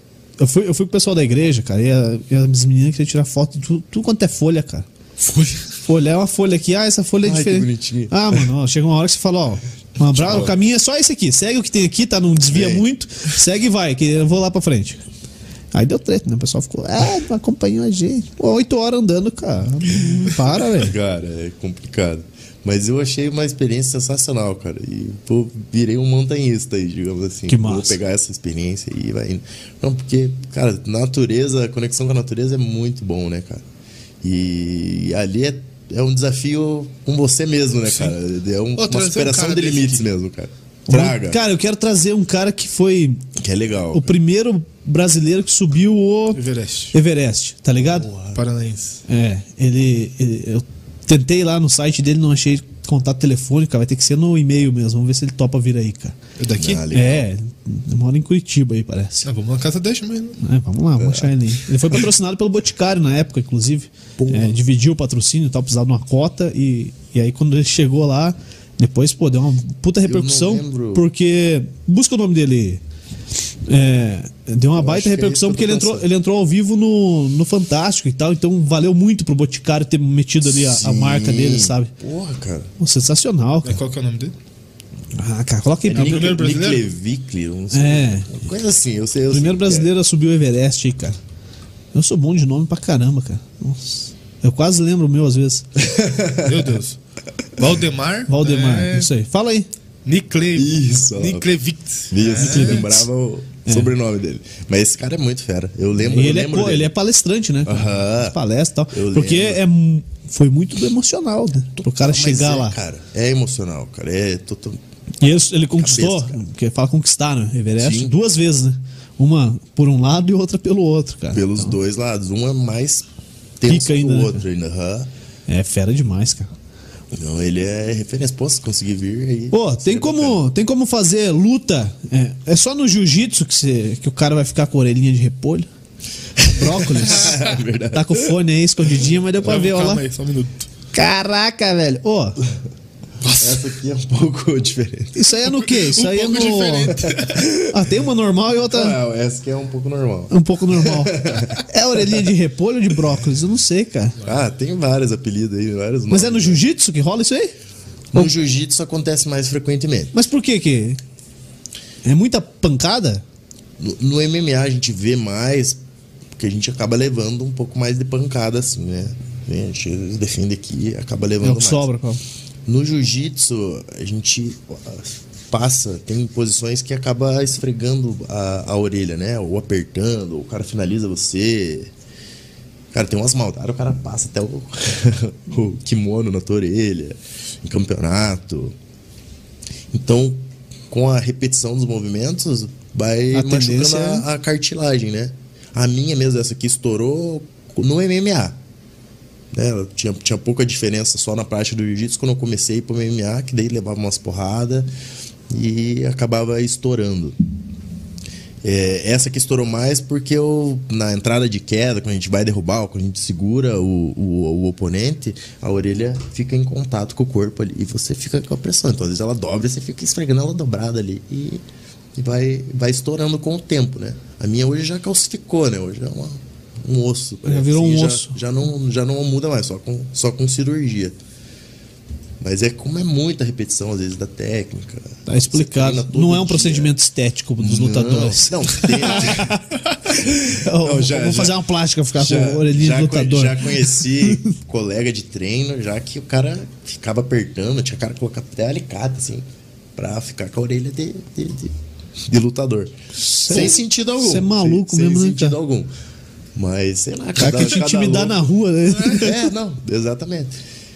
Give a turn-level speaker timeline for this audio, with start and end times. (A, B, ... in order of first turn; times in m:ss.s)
0:00.4-0:04.8 A
0:05.2-0:05.8 B
0:05.8-0:15.0 A
0:07.2-0:08.5 C
0:10.1-0:10.5 C
0:12.5-0:12.9 C
0:15.7-0:20.9 A
0:20.7-0:33.6 C
0:27.5-0:28.0 A
0:34.2-0:41.4 C
0:37.8-0:38.2 B
0:38.8-0:40.0 B
0:40.9-0:43.2 A
0:43.4-0:44.2 C
0:43.9-0:46.4 A
0:46.3-0:46.9 B
0:46.9-0:48.1 A
0:47.8-0:48.4 C
0:48.3-0:49.0 B
0:49.1-0:56.2 A
0:56.4-0:56.8 B
0:56.6-0:57.3 C
0:56.9-0:59.2 A
0:59.2-1:00.4 B
1:00.4-1:12.8 A
1:01.0-1:01.4 C
1:04.2-1:04.6 C
1:10.0-1:11.1 C
1:13.6-1:21.9 A
1:14.7-1:16.1 C
1:20.4-1:22.7 C
1:22.8-1:23.8 A
1:23.6-1:24.3 B
1:25.2-1:26.4 A
1:25.8-1:29.9 C
1:25.9-1:26.8 B
1:27.7-1:28.3 A
1:29.3-1:31.2 A
1:31.9-1:35.7 A
1:35.8-1:36.7 C
1:36.4-1:37.0 B
1:37.6-1:39.1 B
1:38.3-1:39.7 A
1:40.0-1:43.0 B
1:40.5-1:41.5 C
1:42.1-1:46.9 C
1:42.4-1:43.0 A
1:43.6-1:43.9 A
1:46.0-1:52.8 A
1:47.6-1:48.4 C
1:48.9-1:49.6 C
1:51.8-1:54.8 C
1:55.2-2:01.8 A
1:55.8-1:56.4 C
1:57.8-1:58.1 C
2:01.3-2:03.1 C
2:03.6-2:05.1 C
2:03.6-2:04.4 A
2:05.5-2:06.5 A
2:07.1-2:10.4 C
2:09.5-2:15.7 A
2:16.4-2:18.4 C
2:16.5-2:20.0 A
2:19.4-2:20.7 B
2:20.9-2:22.4 A
2:23.2-2:23.7 B
2:23.4-2:25.2 C
2:25.1-2:27.0 A
2:25.6-2:27.5 B
2:27.0-2:27.9 C
2:27.7-2:29.0 A
2:28.7-2:32.2 C
2:30.3-2:34.1 A
2:34.2-2:36.6 C
2:36.1-2:37.5 A
2:38.1-2:40.1 C
2:40.1-2:41.0 A
2:42.0-2:43.2 A
2:43.8-2:45.8 C
2:46.4-2:51.9 C
2:51.4-2:52.2 A
2:52.6-3:01.9 C
3:02.9-3:08.8 C
3:09.9-3:18.6 C
3:13.3-3:14.2 A
3:19.5-3:24.9 C
3:25.5-3:27.4 C
3:28.6-3:41.6 C
3:42.2-3:51.2 C
3:47.4-3:48.3 A
3:52.4-3:56.9 C
3:55.3-3:59.7 A
3:57.6-3:59.5 C
3:58.8-3:59.3 B
4:00.0-4:01.6 C
4:00.5-4:04.5 A
4:02.1-4:11.7 C
4:12.2-4:12.9 C
4:13.2-4:15.6 A
4:13.4-4:15.9 C
4:16.5-4:18.5 C
4:17.4-4:19.4 A
4:18.9-4:19.3 B
4:19.1-4:20.6 C